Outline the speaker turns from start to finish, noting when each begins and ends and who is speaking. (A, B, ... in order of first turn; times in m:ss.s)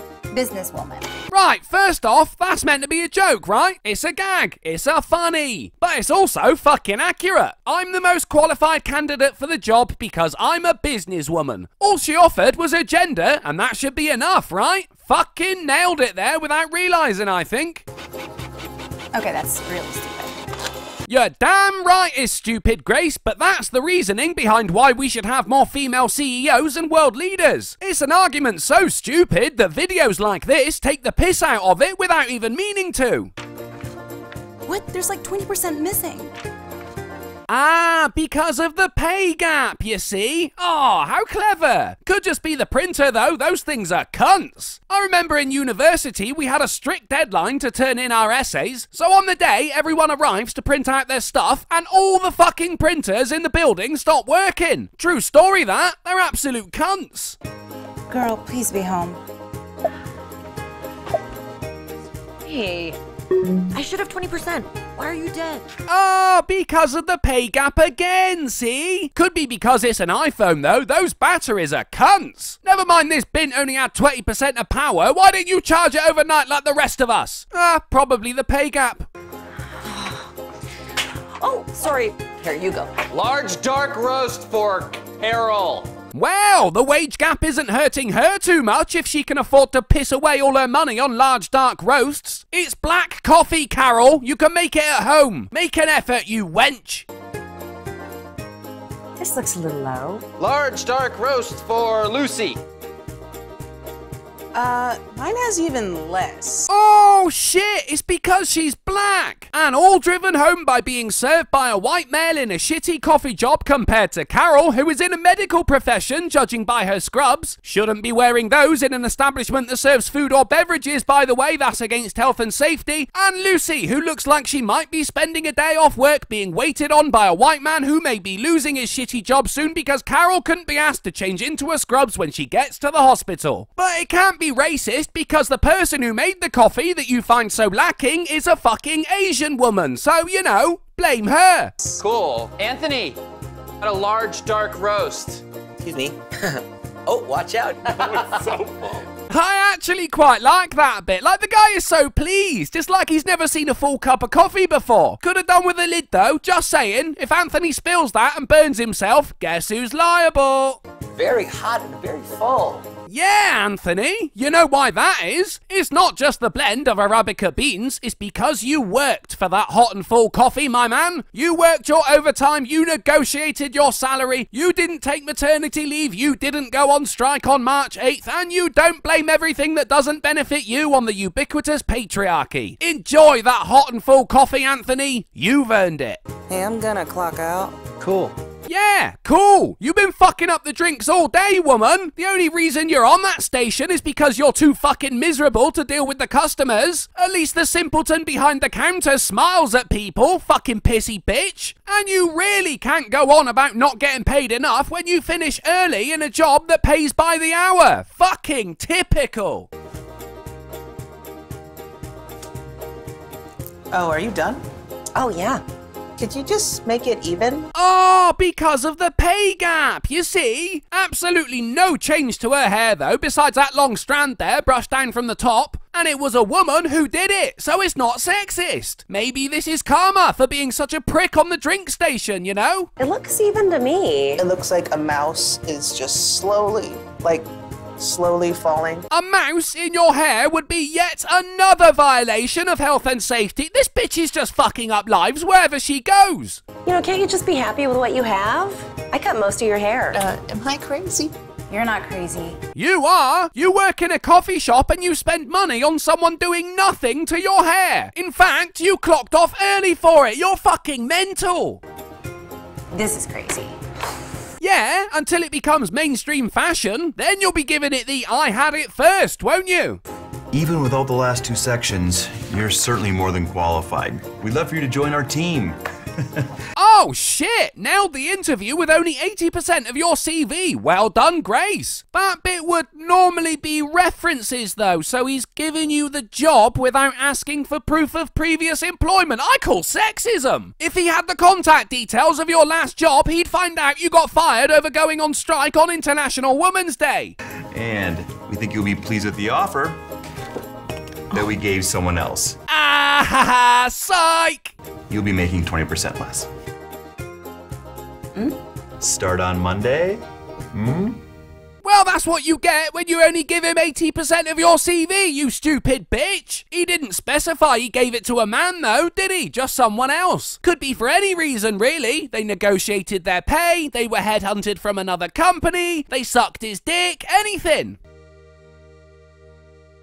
0:00.3-0:01.1 A
0:01.3-0:17.9 B
0:19.1-0:20.4 A
0:21.1-0:33.3 B
0:34.7-0:36.3 A
0:37.5-0:57.4 B
0:58.1-0:59.2 A
1:02.4-1:03.0 A
1:03.7-1:05.6 C
1:05.9-1:19.1 B
1:21.4-1:23.0 D
1:23.1-1:25.9 E
1:26.1-1:37.1 B
1:39.2-1:40.2 D
1:40.4-1:42.6 E
1:44.5-1:46.7 F
1:46.7-2:21.7 B
2:22.0-2:23.2 E
2:23.8-2:25.4 E
2:25.8-2:27.9 G
2:27.9-2:28.9 E
2:29.3-2:40.8 B
2:41.2-2:42.8 G
2:43.1-3:06.2 B
3:06.5-3:07.9 F
3:08.0-3:08.3 E
3:08.7-3:29.7 B
3:33.9-3:34.6 F
3:35.2-3:35.6 D
3:36.2-3:37.7 F
3:37.7-3:52.9 B
3:53.0-3:54.4 D
3:54.4-3:59.0 F
3:59.1-4:06.6 B
4:06.8-4:10.3 D
4:10.1-4:11.3 F
4:11.7-4:12.6 A
4:12.8-4:21.8 B
4:22.9-4:23.7 A
4:24.6-4:30.0 B
4:30.5-4:35.8 H
4:36.7-4:57.4 B
4:57.7-5:00.0 H
5:01.3-5:02.6 H
5:02.7-5:04.7 B
5:05.1-5:06.5 H
5:09.0-5:11.2 H
5:11.8-5:28.0 B